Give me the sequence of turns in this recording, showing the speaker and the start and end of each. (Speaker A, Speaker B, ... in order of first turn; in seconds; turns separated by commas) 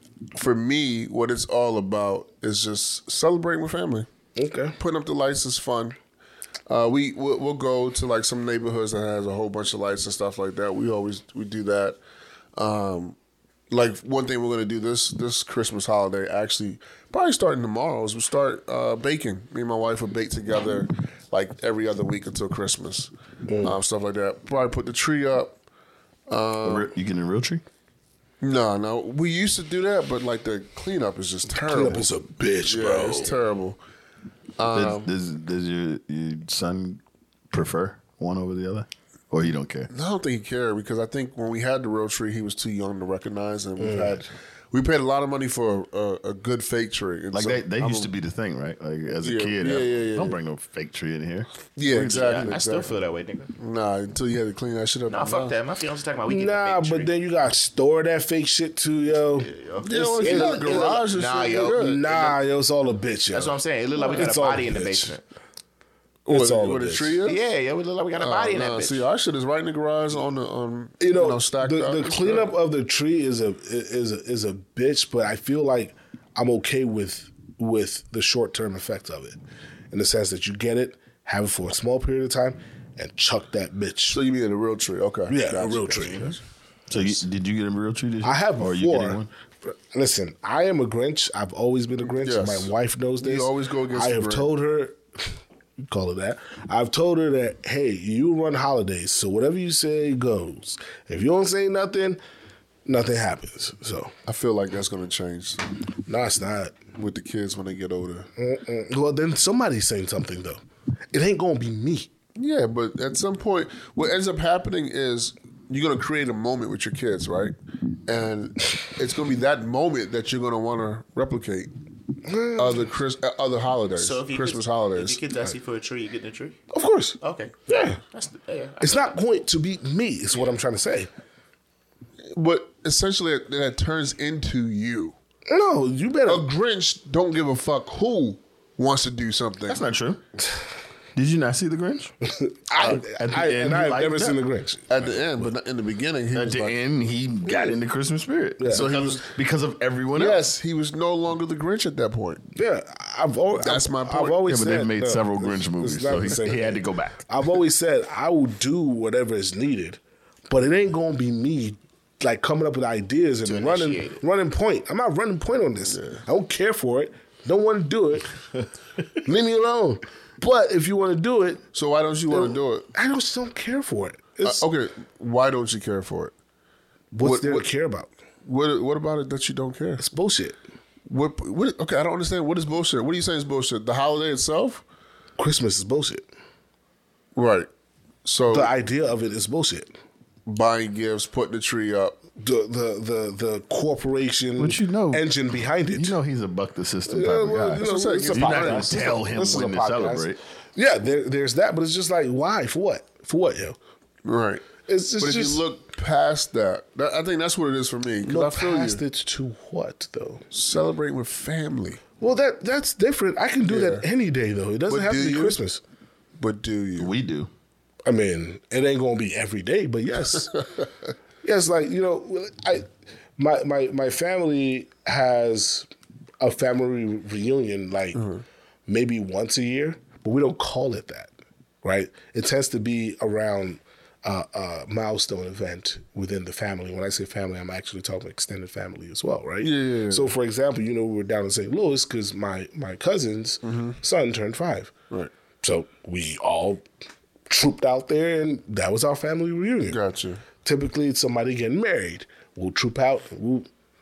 Speaker A: 0.3-4.1, Speaker B: 4.4-4.8, Speaker A: 4.8-6.0, Speaker A: 6.7-12.0, Speaker A: 12.6-13.2, Speaker A: 13.7-25.6, Speaker B: 23.5-23.8, Speaker A: 26.3-26.9, Speaker C: 26.6-27.6, Speaker A: 28.4-32.1, Speaker B: 31.6-33.3, Speaker A: 32.7-33.8, Speaker A: 34.6-35.1, Speaker C: 34.7-37.0, Speaker C: 37.5-39.9, Speaker A: 39.9-48.1, Speaker B: 43.8-44.2, Speaker C: 47.3-52.6, Speaker A: 49.2-50.4, Speaker A: 51.8-52.9, Speaker D: 52.2-53.5, Speaker A: 53.6-55.5, Speaker D: 55.1-57.1, Speaker B: 56.3-60.9, Speaker D: 59.3-62.4, Speaker A: 59.8-62.0, Speaker B: 61.7-65.1, Speaker D: 63.3-65.2, Speaker A: 66.3-67.4, Speaker B: 66.3-67.2, Speaker D: 67.3-69.0, Speaker A: 68.2-72.5, Speaker B: 71.0-79.4, Speaker B: 79.9-84.2, Speaker A: 84.1-86.4, Speaker B: 85.3-86.3, Speaker C: 86.9-89.3, Speaker D: 86.9-87.2, Speaker B: 88.2-95.0, Speaker A: 92.2-92.7, Speaker A: 93.2-94.5, Speaker B: 95.9-102.2, Speaker B: 102.9-104.1, Speaker A: 104.3-105.6, Speaker B: 106.1-106.8, Speaker A: 107.0-108.3, Speaker B: 108.4-110.6, Speaker B: 111.1-112.1, Speaker A: 112.4-117.5, Speaker A: 118.1-121.7, Speaker B: 122.2-122.9, Speaker A: 122.6-125.2, Speaker D: 124.0-126.6, Speaker B: 126.7-128.0, Speaker D: 127.2-129.1, Speaker B: 128.8-131.1, Speaker A: 132.3-135.2, Speaker B: 135.5-136.5, Speaker A: 136.3-139.9, Speaker C: 139.7-140.2, Speaker C: 141.2-142.1, Speaker B: 142.2-144.9, Speaker C: 142.8-144.4, Speaker A: 144.9-146.8, Speaker C: 145.0-145.5, Speaker C: 146.3-150.4, Speaker B: 148.6-148.9, Speaker A: 148.7-149.2, Speaker A: 150.2-152.4, Speaker B: 152.6-168.4, Speaker A: 153.6-154.4, Speaker C: 154.5-157.2, Speaker D: 163.4-164.2, Speaker A: 165.9-166.2, Speaker B: 169.2-171.6, Speaker A: 171.7-172.9, Speaker B: 172.3-174.6, Speaker A: 174.4-176.3, Speaker B: 177.1-178.1, Speaker A: 177.2-177.7, Speaker A: 178.4-180.0, Speaker B: 180.0-180.6, Speaker A: 181.1-184.8, Speaker B: 185.4-186.3, Speaker A: 187.3-187.7, Speaker A: 188.2-188.7, Speaker B: 188.5-189.9, Speaker A: 190.5-192.2, Speaker B: 192.4-196.2, Speaker C: 194.6-200.4, Speaker B: 197.1-203.8, Speaker A: 197.7-199.3, Speaker A: 204.2-209.0, Speaker B: 204.9-205.6, Speaker B: 208.2-210.4, Speaker A: 210.5-212.0, Speaker B: 212.2-215.8, Speaker A: 213.7-214.0, Speaker A: 214.9-215.6, Speaker A: 216.4-217.1, Speaker C: 217.0-217.5, Speaker B: 218.1-220.6, Speaker B: 221.4-225.9, Speaker B: 226.4-228.3, Speaker A: 228.2-228.4, Speaker B: 228.9-231.3, Speaker B: 231.8-244.9, Speaker A: 239.6-240.3, Speaker A: 243.6-244.0, Speaker B: 245.6-246.8, Speaker B: 247.5-250.0, Speaker A: 249.9-250.4, Speaker B: 250.6-253.7